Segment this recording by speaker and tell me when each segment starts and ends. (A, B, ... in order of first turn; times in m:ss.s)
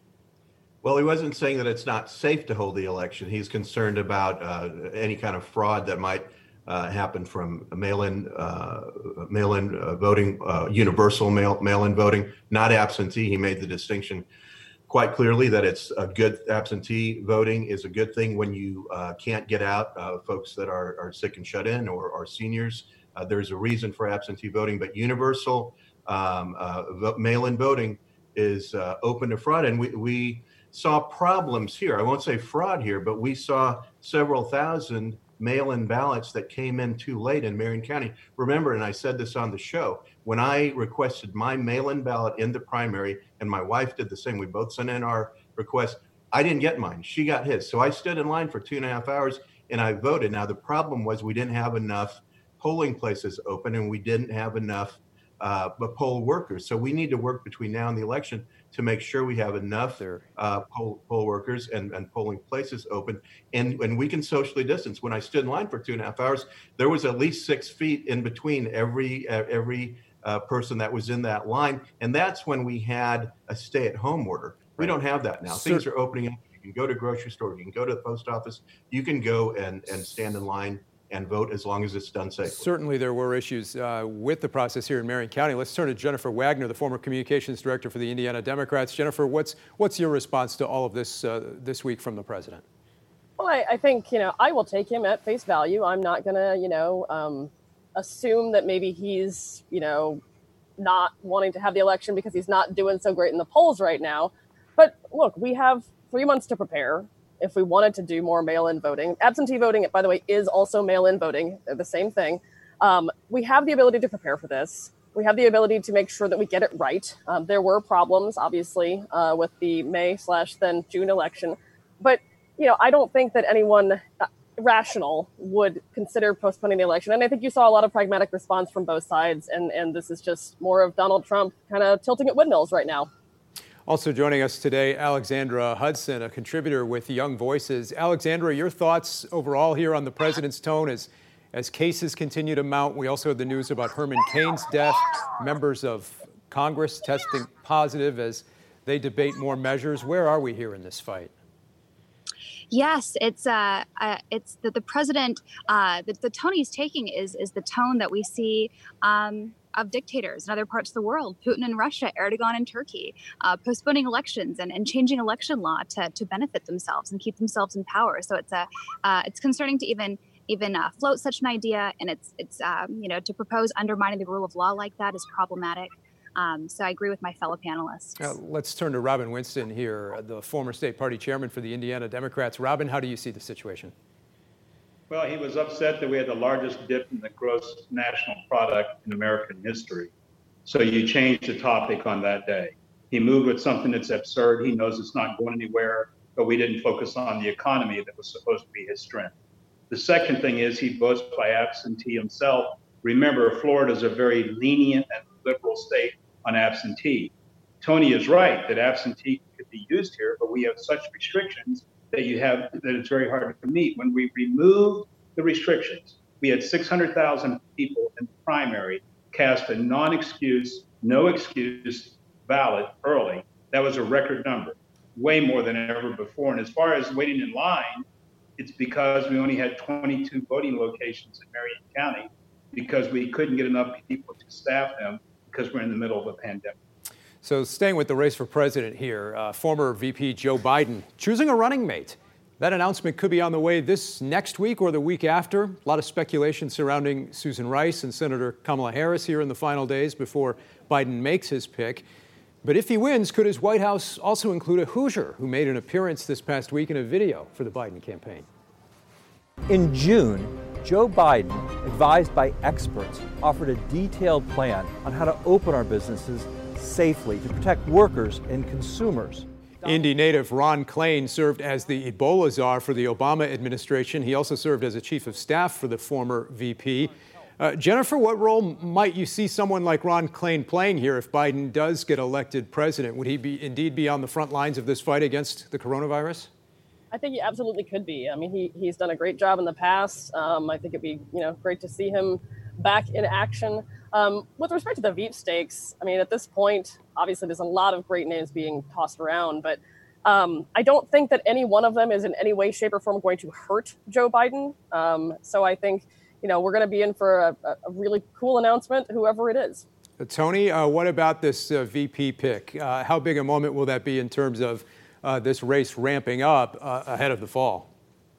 0:00.8-0:14.2 A
0:14.9-1:22.7 A
1:00.0-1:00.2 B
1:15.5-1:15.8 B
1:22.4-1:32.6 B
1:33.4-1:40.2 C
1:40.8-2:13.1 C
2:13.9-2:31.3 B
2:32.7-2:58.3 D
2:58.2-3:03.9 B
3:05.1-3:10.1 E
3:10.6-3:19.3 E
3:19.9-3:48.0 E
3:48.6-3:56.8 E
3:57.4-4:12.0 B
4:12.6-4:18.5 B
4:19.7-4:29.4 F
4:29.8-4:46.5 B
4:47.1-5:09.8 C
5:10.2-5:17.9 B